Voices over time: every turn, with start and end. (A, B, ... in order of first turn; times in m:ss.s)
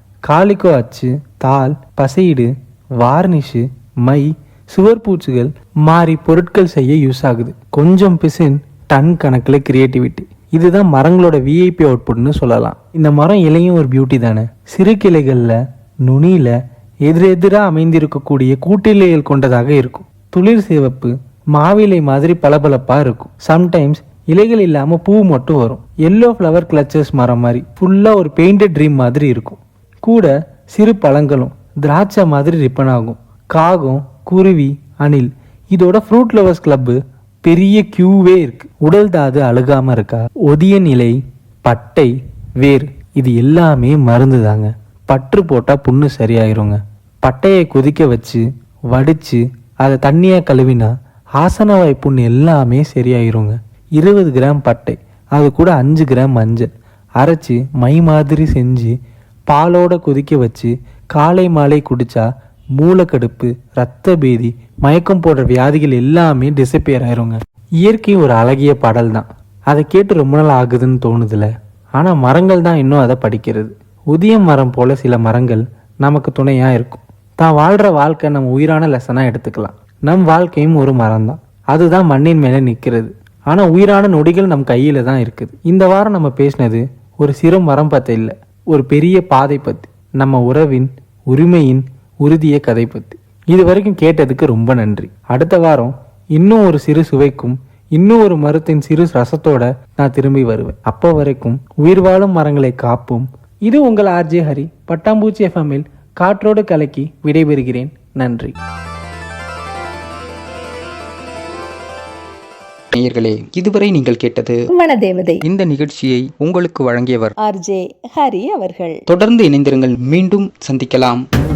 0:00.3-0:56.7 A
0:57.2-0:58.9 A
0:59.5-1:02.3 A
1:02.8-1:48.6 A
1:52.9-1:54.6 B
1:54.7-1:55.4 C
1:55.4-1:57.3 B
1:57.4-1:59.0 C
1:59.1-2:01.2 B